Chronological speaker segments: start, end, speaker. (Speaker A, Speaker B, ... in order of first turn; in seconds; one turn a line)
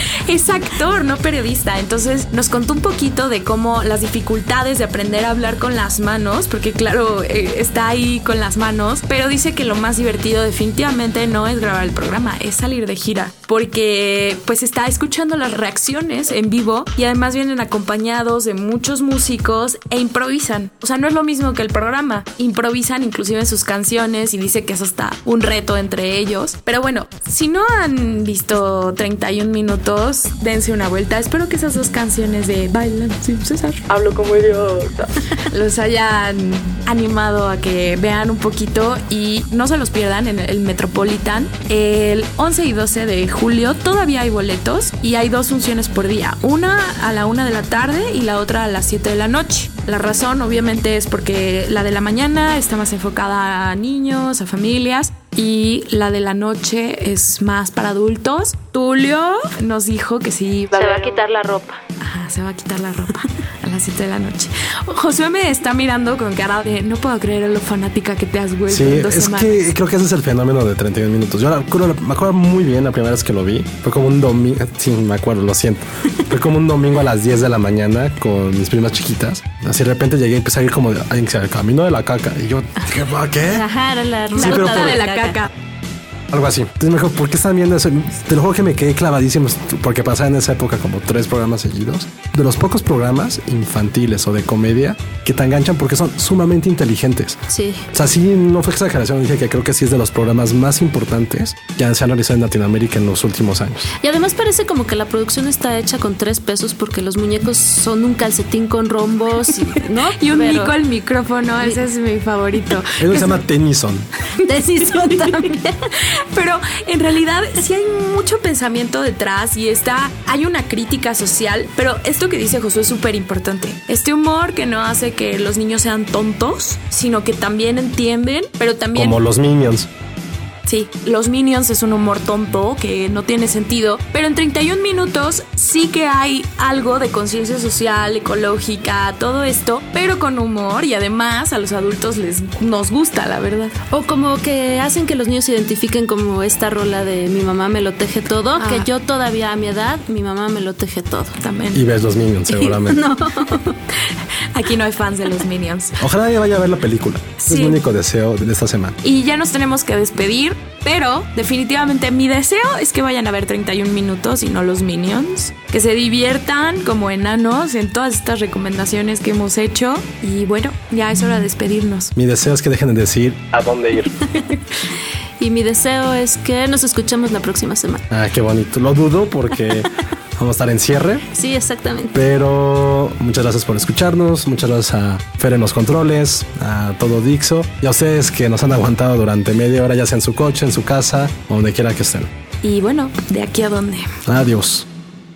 Speaker A: 0.2-61.2
Speaker B: 60.7-61.8
Speaker A: 62.0-69.6
Speaker C: 68.7-83.7
Speaker B: 83.5-85.4
Speaker A: 84.3-85.5
Speaker C: 84.4-85.0
Speaker C: 86.3-103.9
Speaker B: 97.5-97.8
Speaker B: 104.0-110.8
Speaker A: 110.2-113.4
Speaker C: 113.0-114.1
Speaker A: 114.4-129.2
Speaker B: 114.4-115.8
Speaker C: 128.9-129.9
Speaker A: 130.7-143.8
Speaker B: 143.9-151.4
Speaker A: 148.6-148.9
Speaker A: 151.4-151.9
Speaker C: 151.7-153.0
Speaker B: 152.5-153.8
Speaker A: 154.0-156.0
Speaker C: 156.0-159.0
Speaker A: 157.4-157.8
Speaker A: 159.0-172.1
Speaker C: 172.1-174.1
Speaker B: 175.4-178.0
Speaker C: 178.1-181.3
Speaker B: 181.3-182.1
Speaker C: 182.1-192.3
Speaker A: 192.6-194.1
Speaker C: 194.2-194.8